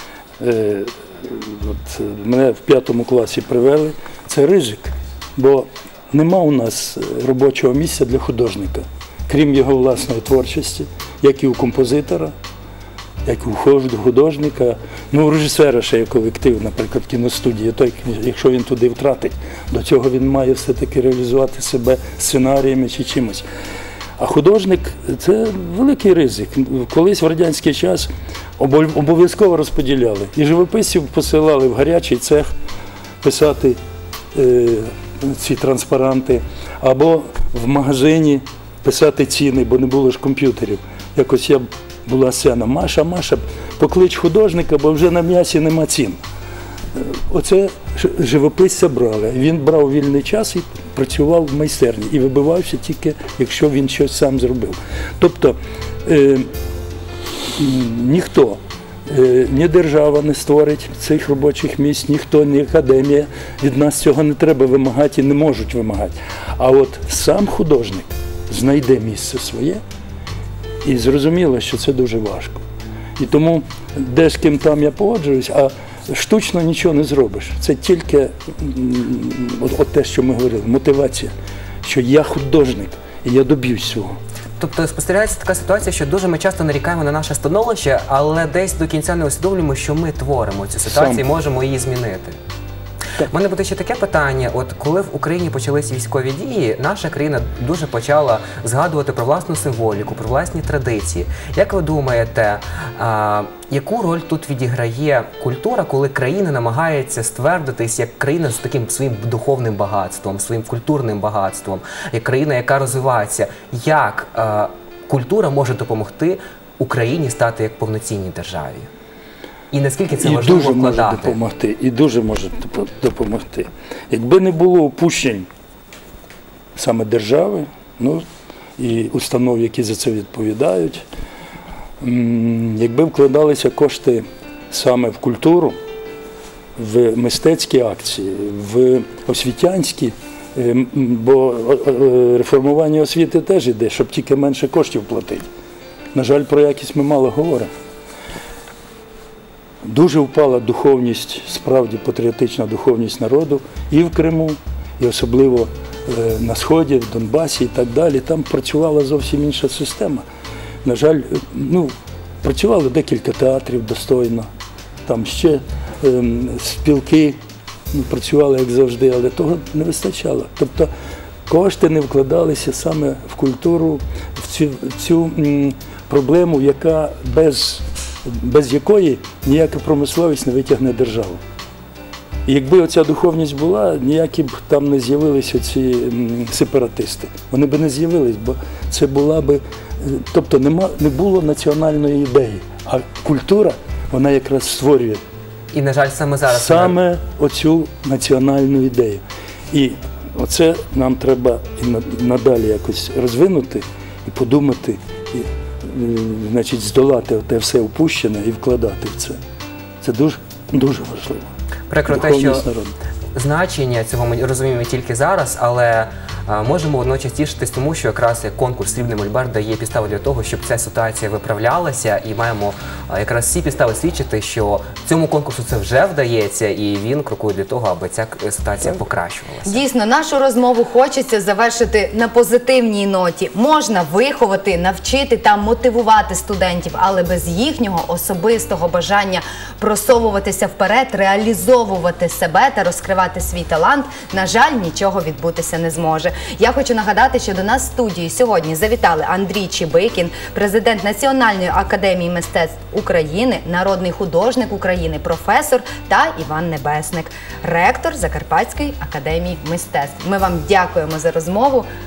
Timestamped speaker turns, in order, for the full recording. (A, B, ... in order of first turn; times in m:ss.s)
0:00.4-0:12.3 A
0:13.2-0:23.4 A
0:24.2-0:32.5 A
0:33.2-0:33.8 A
0:34.3-0:46.2 A
0:46.9-0:56.5 A
0:57.6-1:09.8 A
1:10.8-1:12.6 A
1:13.2-1:21.3 A
1:21.8-1:24.2 A
1:24.6-1:32.4 B
1:30.8-1:31.2 A
1:33.2-1:58.9 B
1:59.7-2:01.4 B
2:00.2-2:05.5 A
2:06.8-2:08.2 A
2:08.8-2:11.0 A
2:12.0-2:15.8 A
2:16.8-2:25.5 A
2:26.1-2:27.7 A
2:29.8-2:40.2 A
2:40.8-2:44.5 A
2:45.0-2:47.4 A
2:47.9-2:50.9 A
2:51.5-3:01.4 A
3:02.4-3:15.2 A
3:15.7-3:17.0 B
3:16.5-3:29.4 A
3:30.0-3:31.5 A
3:31.9-3:32.6 B
3:32.1-3:32.9 A
3:33.4-3:49.8 B
3:49.6-4:21.9 C